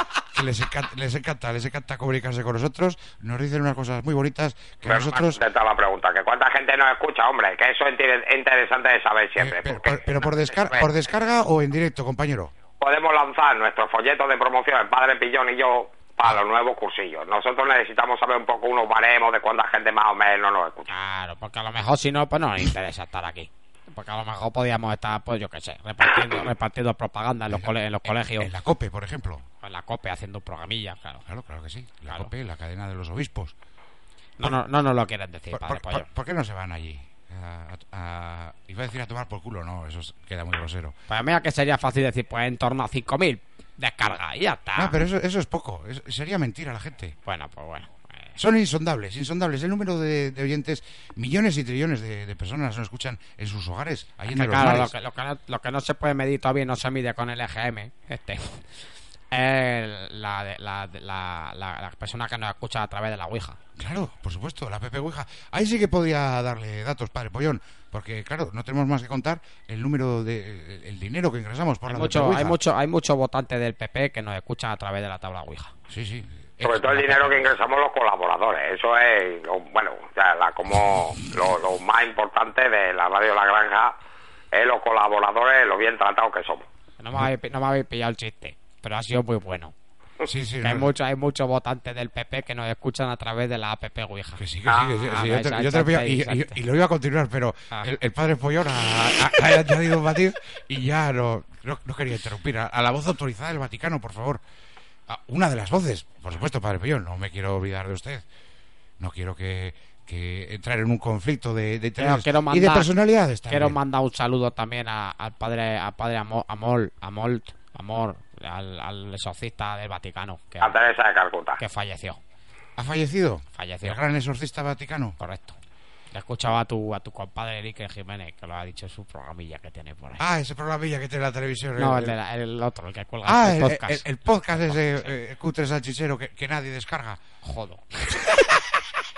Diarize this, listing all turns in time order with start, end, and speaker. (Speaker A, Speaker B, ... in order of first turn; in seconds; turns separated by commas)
Speaker A: 0.3-5.4, Speaker B: 4.9-10.9, Speaker A: 9.4-12.5, Speaker B: 12.8-20.9, Speaker C: 20.9-28.5, Speaker A: 27.5-29.4, Speaker C: 29.6-31.2, Speaker A: 31.3-33.5, Speaker C: 34.4-36.1, Speaker A: 35.5-41.0, Speaker C: 41.1-45.0, Speaker A: 44.8-47.2, Speaker C: 47.3-48.4, Speaker A: 48.4-54.9, Speaker C: 54.3-58.6, Speaker C: 59.3-63.6, Speaker A: 63.8-72.6, Speaker C: 71.9-75.7, Speaker A: 75.9-77.5, Speaker B: 76.6-84.0, Speaker B: 84.5-86.7, Speaker C: 87.0-89.7, Speaker A: 90.2-90.9, Speaker C: 90.6-96.6, Speaker A: 94.4-104.4, Speaker A: 105.1-108.2, Speaker A: 109.0-113.8, Speaker C: 112.0-112.9, Speaker C: 113.5-120.8, Speaker B: 120.6-121.6, Speaker C: 121.6-122.2, Speaker A: 122.8-125.2, Speaker C: 123.6-124.0, Speaker C: 125.2-125.6, Speaker C: 126.1-130.2, Speaker A: 130.2-132.2, Speaker C: 131.8-134.0, Speaker A: 133.2-137.2, Speaker C: 134.6-135.1, Speaker C: 137.4-138.2